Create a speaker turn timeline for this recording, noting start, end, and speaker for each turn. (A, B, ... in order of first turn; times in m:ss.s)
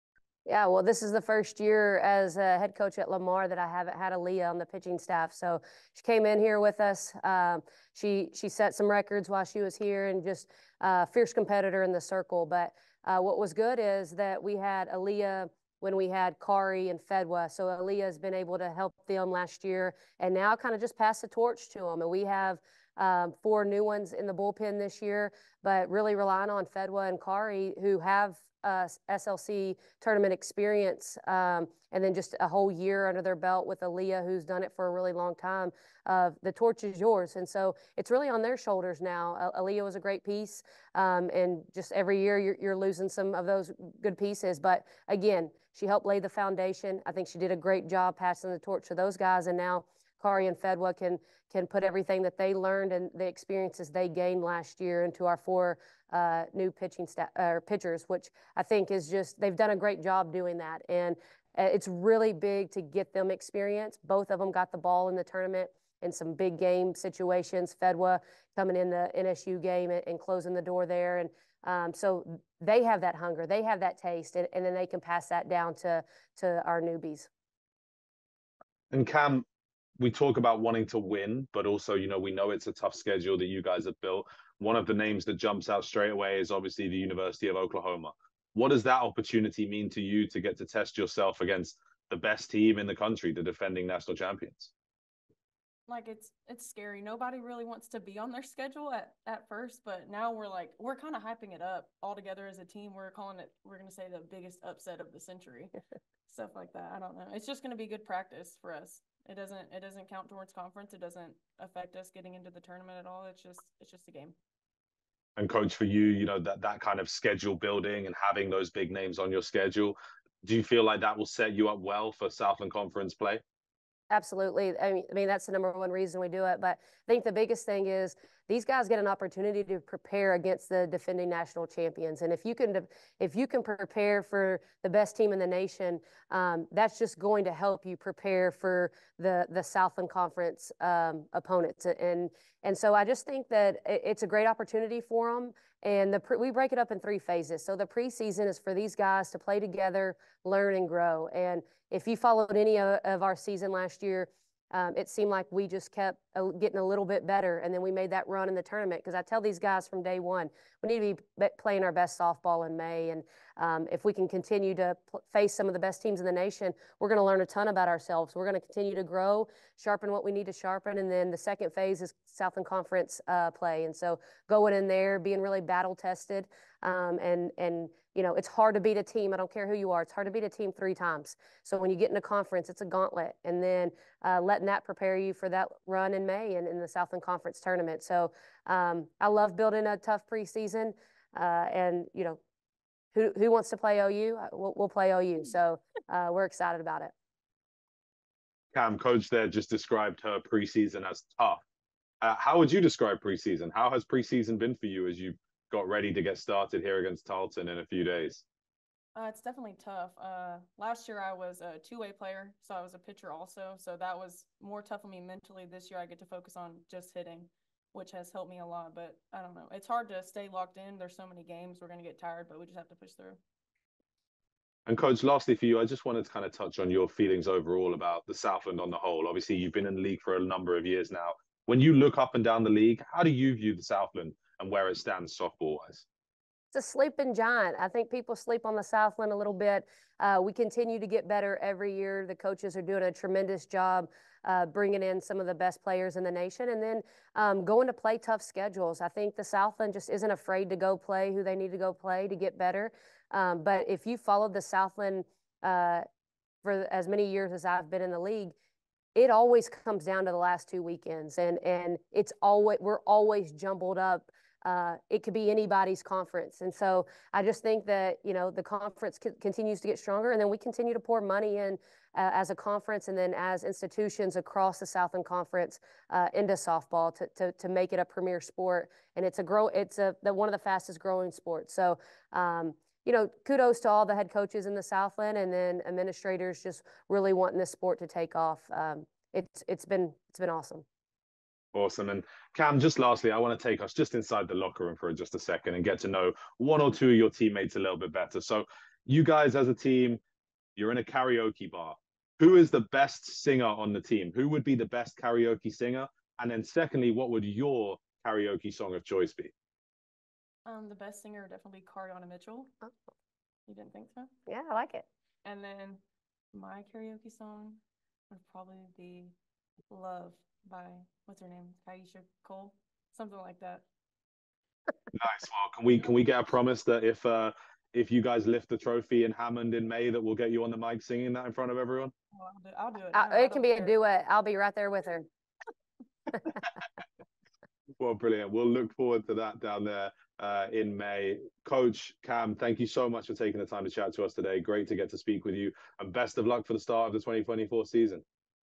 0:00.4-1:17.3 A
1:18.9-1:19.4 B
1:20.0-1:34.7 B
1:35.9-1:45.7 C
1:46.3-1:54.3 C
1:55.4-2:03.4 B
2:04.1-3:12.4 A
3:13.1-3:17.1 A
3:18.7-3:21.6 B
3:22.2-3:28.4 B
3:29.1-3:43.4 C
3:44.9-3:56.0 B
3:56.7-4:16.0 A
4:16.6-4:18.5 A
4:19.1-4:50.8 A
4:51.7-5:00.2 B
5:00.8-5:09.5 B
5:10.6-5:12.7 C
5:13.7-5:14.3 C
5:14.5-5:15.0 A
5:15.4-5:16.0 C
5:16.5-5:19.3 C
5:19.9-5:23.8 C
5:25.1-5:32.1 B
5:32.3-5:33.9 C
5:33.1-5:35.2 A
5:38.0-5:48.2 B